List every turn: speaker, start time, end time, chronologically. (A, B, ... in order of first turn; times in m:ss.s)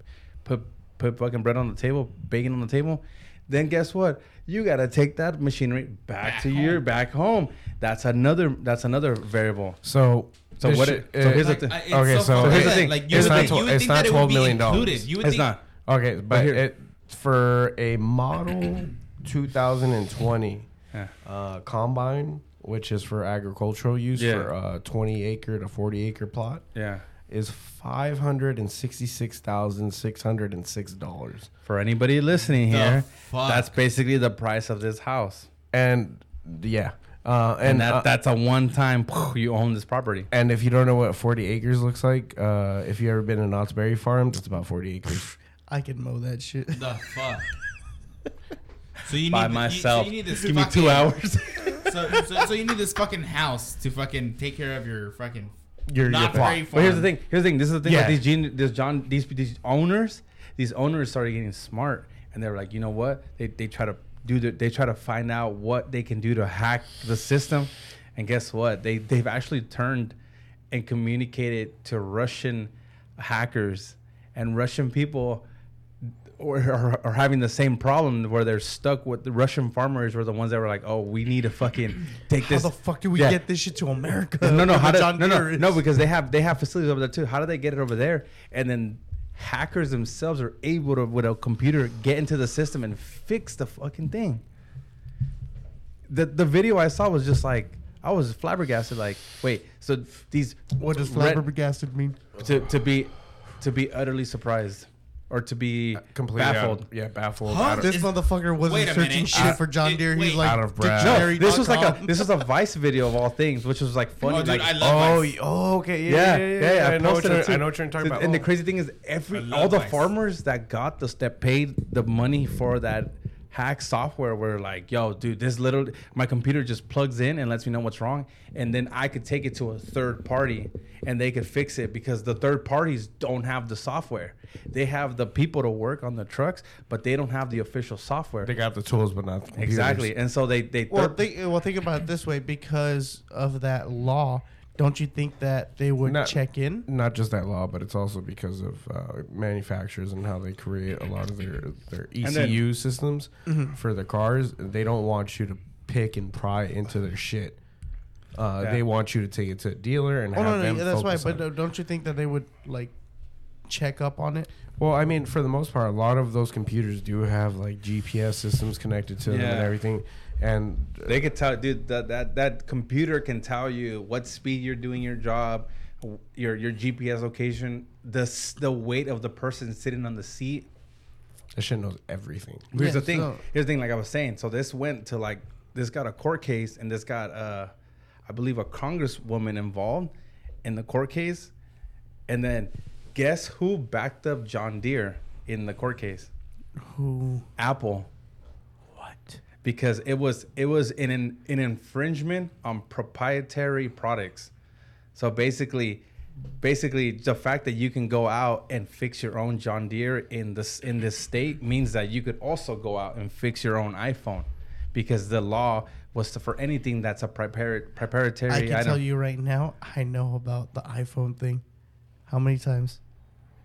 0:00.4-0:09.8 A
0:06.2-0:06.8 B
0:09.8-0:15.1 C
0:10.6-0:13.6 A
0:11.2-0:15.5 B
0:15.2-0:15.6 A
0:15.9-0:20.7 C
0:16.3-0:16.6 A
0:21.2-0:26.6 C
0:24.2-0:24.5 A
0:26.7-0:27.0 A
0:27.3-0:31.5 C
0:31.6-0:35.5 A
0:32.7-0:33.7 B
0:35.7-0:38.1 C
0:37.6-0:40.3 A
0:40.3-0:45.3 C
0:45.7-0:47.1 D
0:46.7-0:47.5 B
0:49.0-0:51.2 B
0:49.3-0:52.0 A
0:51.8-0:57.1 B
0:55.9-0:56.7 C
0:56.3-1:10.1 A
0:57.8-0:58.2 C
1:10.7-1:15.4 A
1:16.4-1:23.4 A
1:22.4-1:25.8 D
1:24.4-1:34.4 A
1:36.1-1:41.4 A
1:40.8-1:42.2 D
1:42.4-1:46.9 A
1:45.9-1:47.9 C
1:47.4-1:50.6 B
1:47.8-1:52.2 D
1:50.4-1:51.4 C
1:51.0-1:54.9 A
1:54.2-1:55.3 B
1:54.8-1:58.5 C
1:56.1-2:18.5 A
1:59.3-2:00.1 B
2:18.4-2:20.1 C
2:19.6-2:21.2 A
2:20.9-2:26.9 D
2:26.0-2:37.6 C
2:32.2-2:32.6 A
2:33.4-2:33.8 D
2:38.3-2:41.4 C
2:40.3-2:42.9 D
2:43.7-2:44.5 D
2:44.8-2:51.2 C
2:49.2-2:49.8 A
2:51.1-3:00.7 A
3:01.5-3:02.7 C
3:02.7-3:07.7 A
3:02.7-3:03.4 D
3:08.3-3:10.1 A
3:10.6-3:11.5 A
3:12.3-3:16.3 A
3:16.8-3:17.4 D
3:17.6-3:18.1 A
3:19.0-3:19.4 D
3:19.6-3:24.5 A
3:25.1-3:26.0 A
3:26.6-3:39.0 A
3:38.5-3:41.6 D
3:42.3-3:43.0 D